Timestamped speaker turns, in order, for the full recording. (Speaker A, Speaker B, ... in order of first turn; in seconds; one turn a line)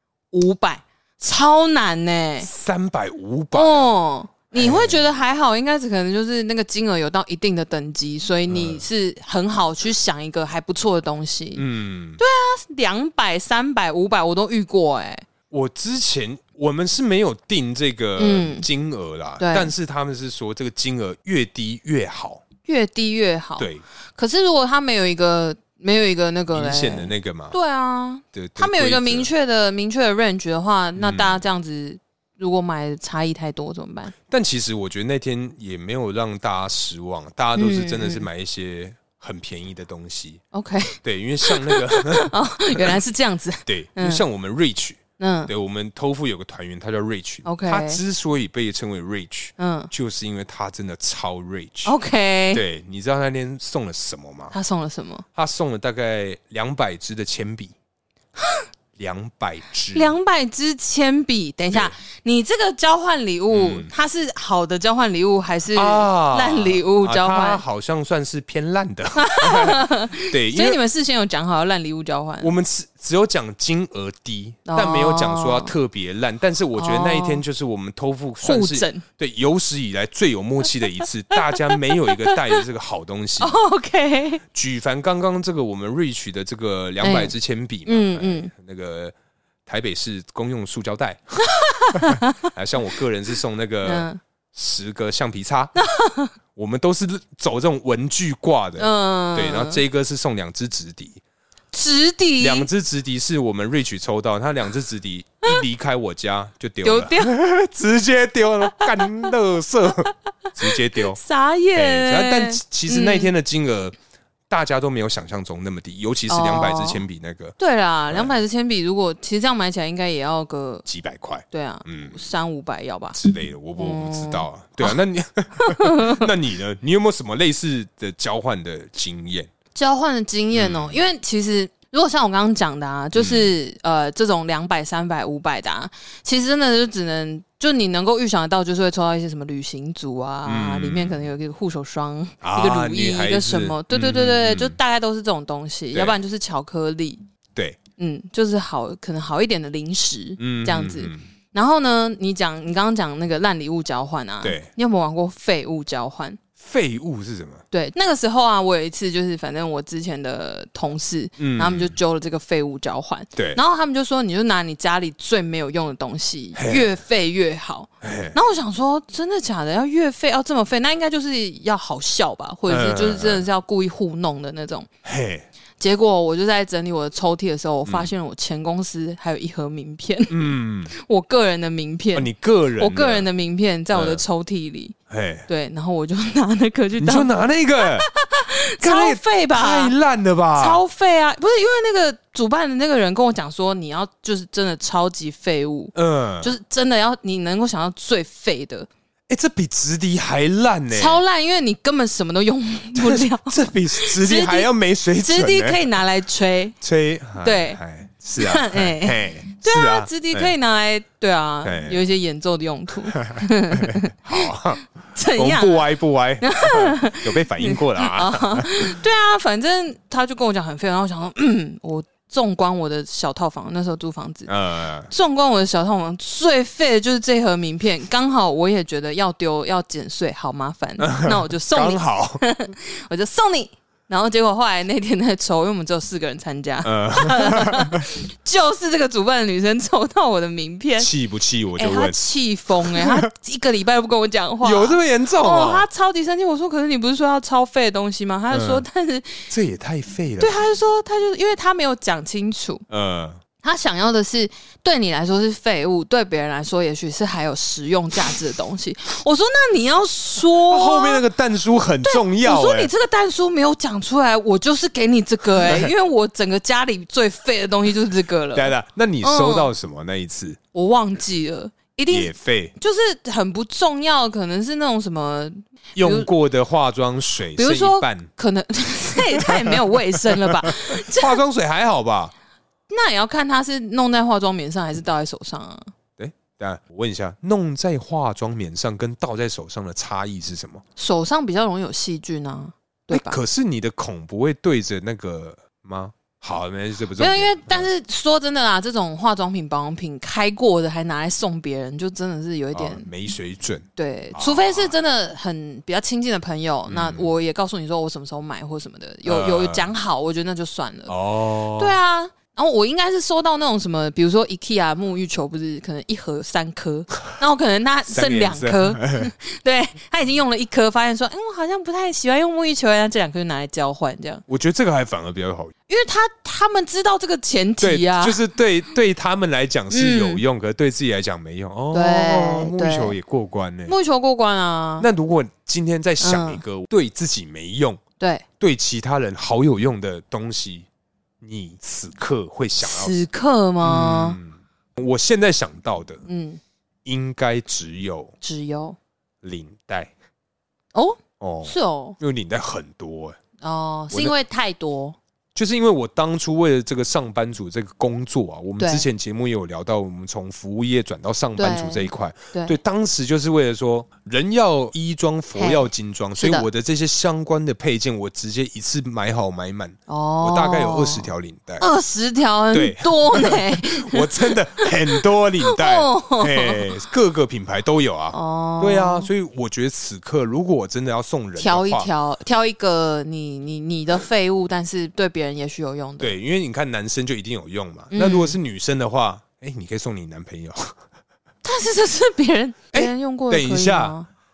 Speaker A: 0.3-2.5
Speaker B: 2.4-3.9
Speaker A: 3.5-11.6
Speaker B: 4.5-5.1
Speaker B: 8.5-8.8
Speaker B: 11.6-12.2
Speaker A: 12.2-15.3
Speaker B: 15.5-22.4
Speaker A: 18.2-18.7
Speaker A: 19.4-19.7
Speaker A: 22.6-34.1
Speaker B: 23.6-23.8
Speaker B: 26.5-27.6
Speaker B: 28.3-29.3
Speaker B: 31.0-31.4
Speaker B: 34.3-40.4
Speaker A: 37.5-38.3
Speaker A: 40.5-44.2
Speaker B: 41.0-43.0
Speaker B: 43.7-51.9
Speaker A: 45.2-45.5
Speaker A: 47.5-48.0
Speaker A: 49.6-49.9
Speaker A: 51.9-52.6
Speaker B: 52.5-54.5
Speaker A: 54.5-55.2
Speaker B: 55.4-57.7
Speaker A: 58.4-58.6
Speaker B: 59.0-60.1
Speaker A: 59.9-67.6
Speaker B: 63.5-63.9
Speaker B: 65.7-70.8
Speaker A: 69.2-72.5
Speaker B: 72.4-83.6
Speaker A: 74.7-75.7
Speaker A: 76.8-77.4
Speaker A: 78.4-79.0
Speaker A: 81.0-82.6
Speaker A: 83.4-84.4
Speaker B: 84.5-89.2
Speaker A: 87.0-87.3
Speaker A: 87.9-88.5
Speaker B: 89.7-91.4
Speaker A: 91.4-92.5
Speaker B: 92.0-95.7
Speaker A: 93.8-94.2
Speaker A: 95.8-96.3
Speaker B: 96.5-101.2
Speaker A: 98.8-99.8
Speaker A: 101.7-102.7
Speaker B: 102.4-111.2
Speaker A: 106.8-107.4
Speaker A: 108.7-109.3
Speaker A: 111.0-113.3
Speaker B: 111.8-114.0
Speaker B: 114.5-117.6
Speaker A: 116.3-117.0
Speaker A: 117.6-120.8
Speaker B: 118.1-118.3
Speaker B: 120.8-122.2
Speaker A: 121.5-123.2
Speaker B: 123.1-129.5
Speaker A: 123.8-125.0
Speaker A: 125.6-126.3
Speaker A: 129.7-147.2
Speaker B: 130.5-131.0
Speaker B: 133.2-133.5
Speaker B: 140.4-141.3
Speaker B: 142.4-144.8
Speaker B: 145.9-146.2
Speaker B: 147.6-147.8
Speaker A: 148.0-156.4
Speaker B: 150.4-151.2
Speaker B: 154.4-154.7
Speaker B: 156.6-157.6
Speaker A: 157.7-174.9
Speaker B: 161.4-162.0
Speaker B: 166.6-167.0
Speaker B: 168.0-168.4
Speaker B: 172.7-173.5
Speaker B: 175.0-175.5
Speaker A: 175.8-184.9
Speaker B: 177.9-178.1
Speaker B: 180.3-180.9
Speaker B: 182.1-183.3
Speaker B: 183.9-184.2
Speaker B: 185.1-185.5
Speaker A: 185.5-189.9
Speaker B: 187.0-188.1
Speaker B: 188.8-190.8
Speaker A: 190.6-198.9
Speaker B: 195.9-196.5
Speaker B: 199.3-201.2
Speaker A: 200.9-206.8
Speaker B: 203.0-205.9
Speaker B: 206.8-210.5
Speaker A: 207.4-207.8
Speaker A: 208.4-214.5
Speaker B: 211.6-212.0
Speaker B: 213.2-219.0
Speaker A: 215.2-224.5
Speaker B: 224.5-225.1
Speaker A: 225.1-241.1
Speaker B: 231.0-232.4
Speaker B: 236.8-238.1
Speaker B: 241.0-242.2
Speaker A: 241.8-249.5
Speaker B: 242.8-243.3
Speaker B: 244.6-245.9
Speaker B: 248.5-248.8
Speaker B: 249.5-250.6
Speaker A: 250.4-252.8
Speaker B: 252.9-253.4
Speaker A: 253.6-261.2
Speaker B: 260.7-262.9
Speaker A: 262.0-269.7
Speaker B: 265.6-265.9
Speaker B: 268.5-270.6
Speaker A: 270.7-276.3
Speaker B: 272.1-272.8
Speaker B: 276.0-278.3
Speaker A: 277.6-281.4
Speaker B: 279.4-282.3
Speaker A: 282.9-285.9
Speaker B: 286.2-290.8
Speaker A: 291.0-293.4
Speaker B: 293.1-297.9
Speaker A: 297.2-303.1
Speaker B: 302.7-304.9
Speaker A: 304.0-311.1
Speaker B: 306.9-307.3
Speaker B: 309.3-309.9
Speaker B: 311.1-312.0
Speaker A: 311.8-324.4
Speaker B: 318.1-319.3
Speaker B: 324.5-325.7
Speaker A: 325.9-328.4
Speaker B: 327.8-334.0
Speaker A: 329.9-330.4
Speaker A: 331.9-333.2
Speaker A: 333.9-335.1
Speaker B: 335.0-338.0
Speaker A: 336.2-336.6
Speaker A: 338.2-338.4
Speaker B: 338.6-340.9
Speaker B: 341.4-343.2
Speaker A: 342.8-344.4
Speaker B: 343.8-346.2
Speaker A: 346.3-346.6
Speaker B: 347.1-348.4
Speaker A: 348.4-349.0
Speaker B: 349.4-350.1
Speaker A: 350.9-352.2
Speaker B: 351.4-353.4
Speaker A: 353.6-355.2
Speaker B: 355.6-371.9
Speaker A: 358.8-359.1
Speaker A: 361.6-362.8
Speaker A: 365.6-366.7
Speaker A: 370.1-371.3
Speaker A: 371.8-376.9
Speaker B: 372.7-382.1
Speaker A: 378.3-379.3
Speaker A: 381.6-386.4
Speaker B: 386.2-391.0
Speaker A: 388.1-388.6
Speaker A: 391.6-394.3
Speaker B: 392.9-394.1